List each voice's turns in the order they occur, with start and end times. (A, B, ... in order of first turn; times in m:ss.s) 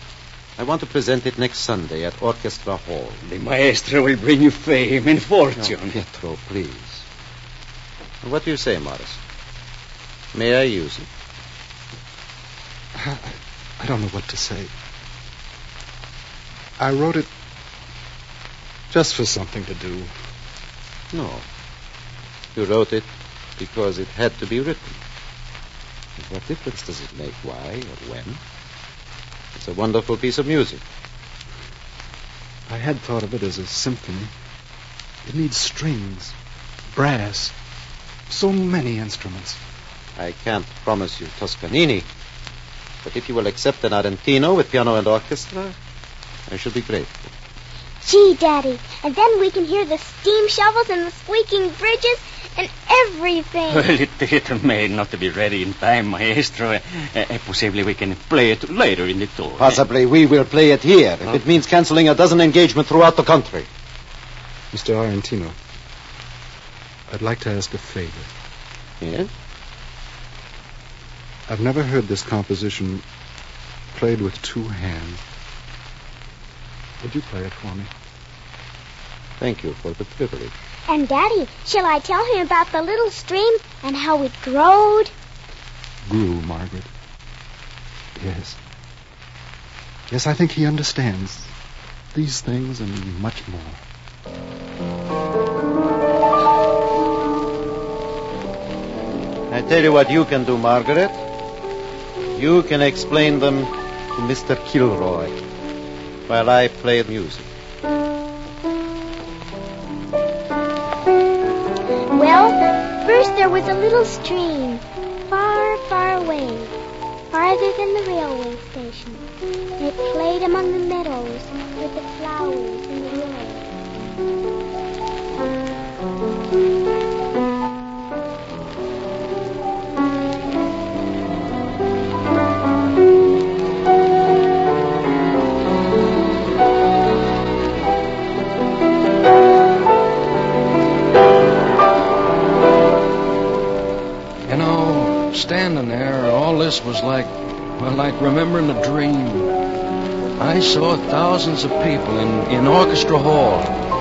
0:00.6-0:03.2 A
0:03.2-0:06.0 B
0:05.6-0:07.0 A
0:08.2-0:09.2 A
0:10.3-0:11.1 A
0:13.0-0:14.7 C
0:16.8-0:17.3 C
0:18.9-0:20.1 C
0:21.1-0:21.5 A
0:22.6-0:25.0 A
0:26.2-0:28.4 A
0:29.6-0:30.8 A
0:32.7-0:34.3 C
0:35.2-0:36.4 C
0:36.9-0:37.6 C
0:38.3-0:39.6 C
0:40.2-0:42.1 A
0:43.0-0:45.8 A
0:46.5-0:47.3 A
0:48.0-0:53.9 D
0:53.7-0:59.8 B
0:59.6-1:03.7 A
1:04.7-1:05.6 C
1:07.1-1:08.3 C
1:09.0-1:09.3 A
1:11.5-1:13.0 C
1:13.9-1:15.2 C
1:17.0-1:17.9 C
1:19.4-1:20.5 A
1:20.9-1:25.1 D
1:26.1-1:26.9 C
1:28.2-1:28.6 C
1:30.1-1:31.5 C
1:32.1-1:33.8 C
1:39.5-1:41.2 A
1:42.4-1:45.4 A
1:46.3-1:47.5 A
1:52.1-1:56.7 D
1:57.3-1:59.3 D
1:59.8-2:03.7 D
2:24.5-2:29.6 E
2:30.4-2:33.7 E